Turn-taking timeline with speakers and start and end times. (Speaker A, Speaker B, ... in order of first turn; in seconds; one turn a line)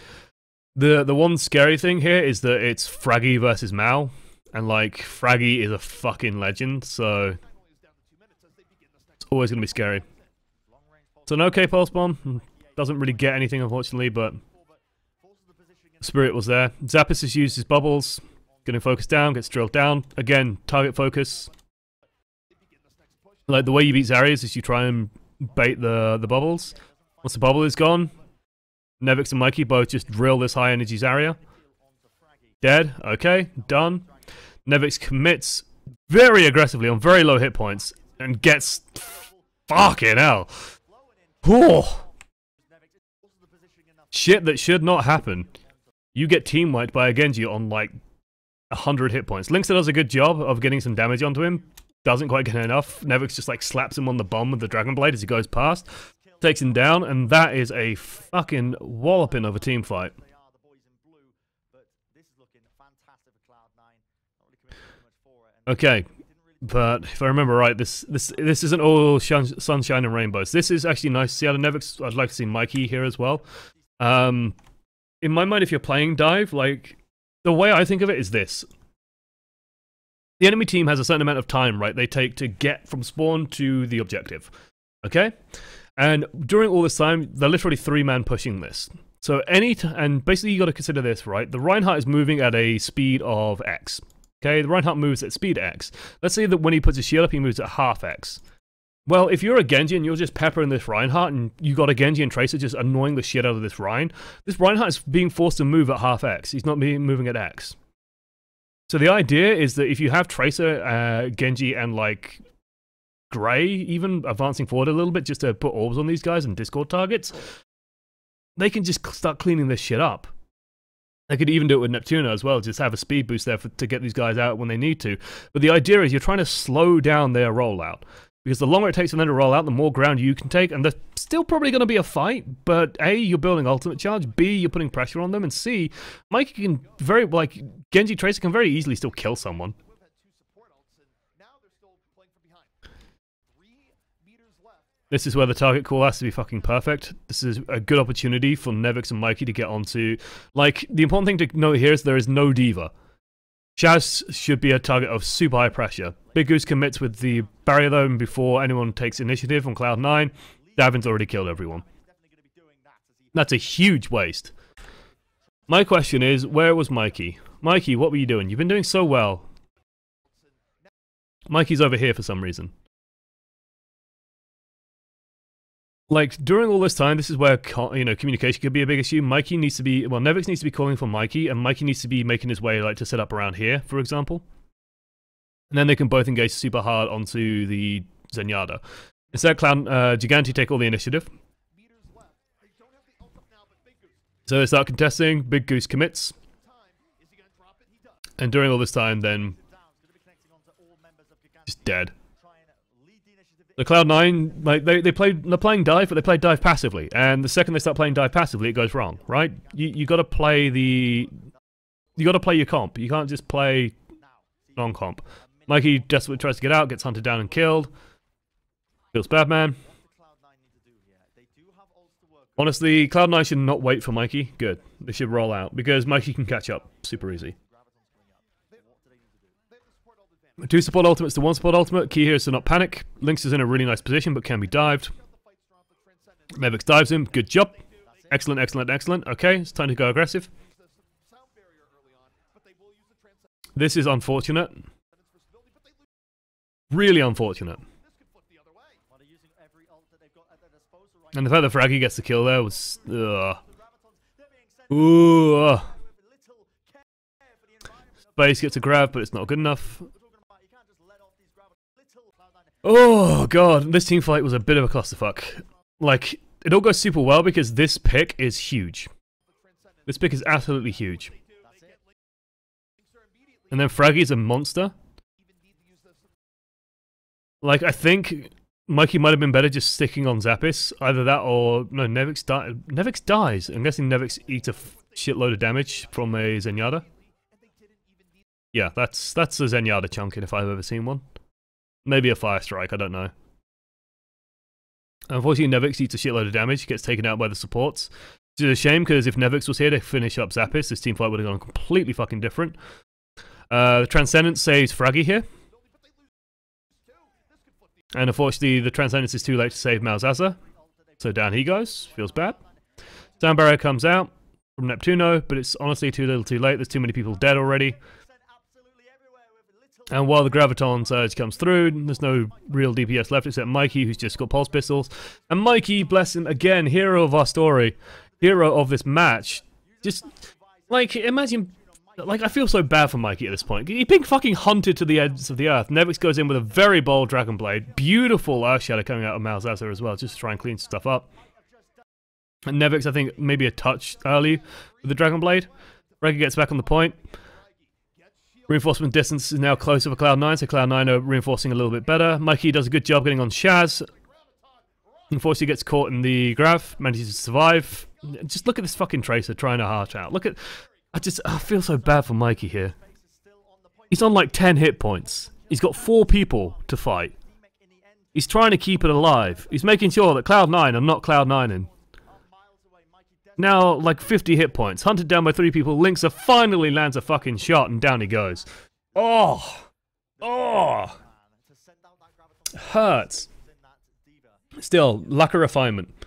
Speaker A: 0.8-7.4
Speaker B: 7.3-10.3
Speaker A: 9.3-10.0
Speaker C: 10.7-13.5
Speaker A: 11.3-14.4
Speaker C: 14.4-16.3
Speaker A: 16.0-21.5
Speaker B: 22.5-23.9
Speaker A: 23.5-28.2
Speaker C: 26.6-27.6
Speaker A: 29.0-31.4
Speaker C: 31.3-32.6
Speaker A: 32.6-34.1
Speaker C: 33.4-34.2
Speaker A: 34.7-40.6
Speaker C: 37.9-39.7
Speaker C: 40.7-45.8
Speaker A: 41.4-42.0
Speaker A: 44.1-45.5
Speaker A: 46.1-48.0
Speaker A: 48.7-60.1
Speaker C: 56.2-56.7
Speaker C: 59.1-66.9
Speaker A: 65.7-66.1
Speaker A: 66.6-73.5
Speaker A: 74.0-74.6
Speaker A: 75.2-78.7
Speaker A: 80.4-84.5
Speaker A: 85.0-85.4
Speaker A: 86.0-98.4
Speaker A: 99.1-107.8
Speaker A: 108.9-112.4
Speaker A: 113.3-117.5
Speaker A: 118.6-120.3
Speaker A: 121.3-139.8
Speaker B: 139.7-142.8
Speaker B: 143.5-145.1
Speaker A: 145.1-152.9
Speaker A: 153.8-161.8
Speaker C: 160.6-163.9
Speaker A: 163.3-164.5
Speaker A: 165.7-169.5
Speaker B: 170.2-170.9
Speaker A: 171.5-172.7
Speaker A: 176.1-184.4
Speaker A: 185.7-188.8
Speaker A: 189.3-191.3
Speaker B: 191.7-194.3
Speaker A: 194.5-196.3
Speaker B: 196.4-198.3
Speaker A: 198.4-199.6
Speaker C: 199.3-204.6
Speaker A: 201.7-202.1
Speaker A: 203.8-211.3
Speaker A: 212.2-213.9
Speaker C: 214.2-216.4
Speaker A: 214.8-217.9
Speaker A: 219.1-219.8
Speaker C: 219.8-223.1
Speaker A: 222.6-227.5
Speaker C: 226.9-229.6
Speaker B: 229.7-231.0
Speaker A: 230.6-235.1
Speaker B: 234.6-238.3
Speaker A: 236.5-237.8
Speaker C: 238.0-238.4
Speaker A: 238.3-240.5
Speaker B: 240.7-243.8
Speaker A: 243.8-244.8
Speaker B: 245.1-246.2
Speaker A: 246.9-247.8
Speaker B: 247.8-249.0
Speaker C: 249.1-251.9
Speaker A: 251.3-253.6
Speaker C: 252.4-263.0
Speaker A: 254.9-255.9
Speaker A: 258.4-260.1
Speaker A: 262.8-269.1
Speaker B: 269.4-272.2
Speaker A: 270.1-271.3
Speaker C: 271.6-271.9
Speaker B: 273.0-274.1
Speaker A: 273.7-274.9
Speaker B: 275.4-276.3
Speaker A: 277.6-287.0
Speaker B: 284.3-288.5
Speaker A: 288.7-291.2
Speaker A: 292.1-293.3
Speaker A: 295.3-302.8
Speaker A: 303.7-305.5
Speaker B: 305.7-308.1
Speaker A: 308.1-310.6
Speaker C: 310.6-312.8
Speaker A: 311.2-312.6
Speaker A: 313.4-318.0
Speaker C: 317.5-323.1
Speaker A: 320.1-330.3
Speaker C: 324.2-325.9
Speaker C: 329.9-332.8
Speaker A: 330.9-341.3
Speaker C: 335.3-335.8
Speaker C: 336.5-337.2
Speaker C: 339.8-342.1
Speaker A: 342.7-345.7
Speaker B: 345.0-345.5
Speaker B: 346.1-350.2
Speaker A: 346.2-347.2
Speaker A: 348.7-354.1
Speaker B: 353.8-355.9
Speaker A: 355.3-363.0
Speaker B: 356.8-358.4
Speaker B: 360.7-361.2
Speaker C: 361.8-368.5
Speaker A: 364.1-367.3
Speaker A: 368.4-371.9
Speaker C: 369.4-370.1
Speaker C: 372.2-374.8
Speaker A: 373.6-379.9
Speaker C: 380.4-385.2
Speaker A: 380.4-381.2
Speaker A: 382.7-383.5
Speaker A: 384.8-386.1